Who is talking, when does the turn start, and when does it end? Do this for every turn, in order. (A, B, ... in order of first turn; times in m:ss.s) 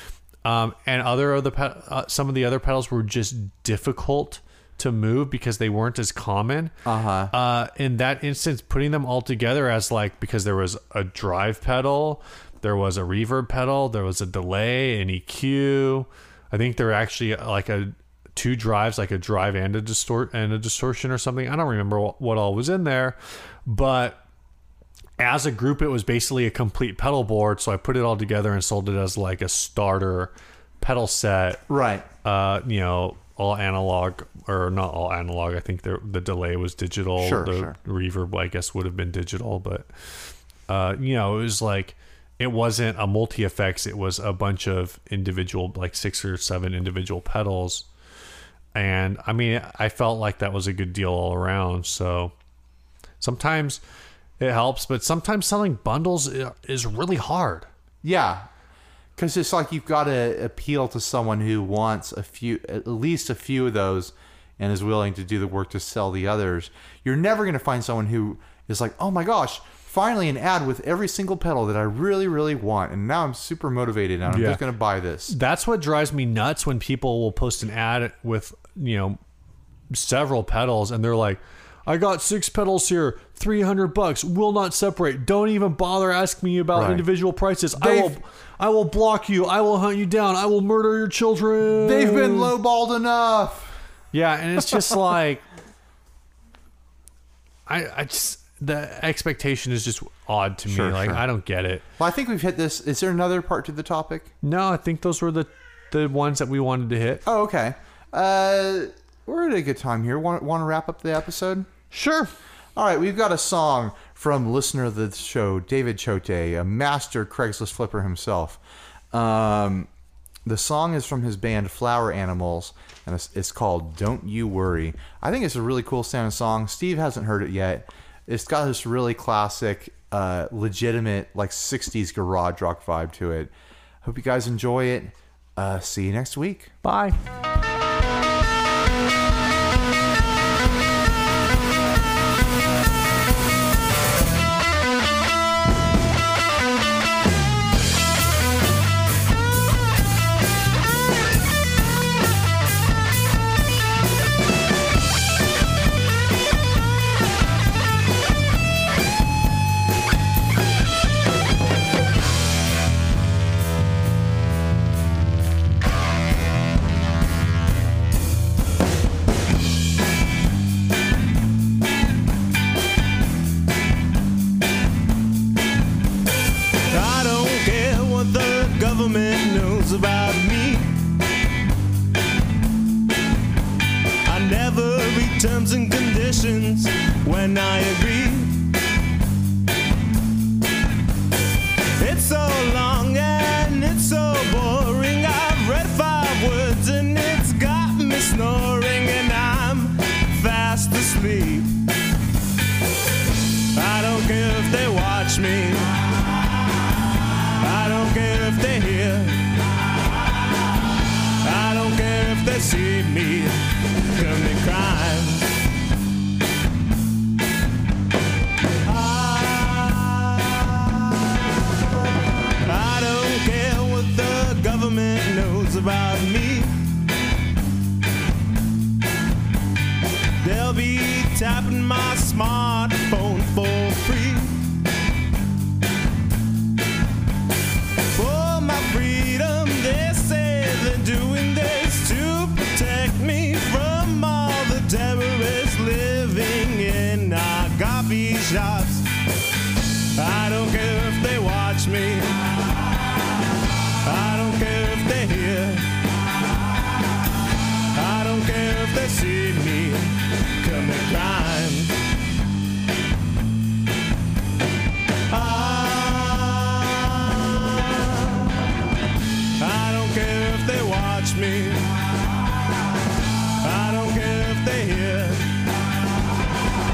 0:00.4-0:06.7 A
0:06.8-0:07.3 B
0:07.3-0:24.2 A
0:25.2-0:31.6 A
0:31.7-0:32.1 B
0:32.2-0:39.9 A
0:37.2-0:37.8 B
0:40.7-0:47.9 A
0:48.7-0:52.3 A
0:53.2-0:53.8 A
0:54.4-0:57.7 A
0:58.0-0:58.5 B
0:59.2-1:15.3 B
1:14.3-1:14.6 A
1:15.3-1:19.2 A
1:19.9-1:32.5 A
1:26.7-1:27.0 B
1:27.8-1:28.2 B
1:31.8-1:33.8 B
1:34.1-1:35.4 A
1:37.7-1:41.8 A
1:40.7-1:41.2 B
1:42.0-1:44.3 B
1:44.4-1:47.2 A
1:47.2-1:51.7 B
1:51.9-1:52.3 A
1:52.8-1:58.6 B
1:59.1-1:59.9 B
2:00.4-2:13.5 B
2:14.0-2:16.7 B
2:16.8-2:17.2 A
2:56.9-3:01.0 C
3:04.2-3:08.7 C
3:12.0-3:21.8 C
3:23.7-3:26.2 C
3:27.5-3:29.5 C
3:31.4-3:35.6 C
3:38.8-3:41.3 C
3:42.6-3:46.8 C
3:50.4-3:54.8 C
3:58.1-4:09.0 C
4:10.1-4:12.6 C
4:14.0-4:16.0 C
4:17.9-4:22.0 C
4:25.3-4:28.6 C
4:29.6-4:32.0 C
4:33.6-4:35.6 C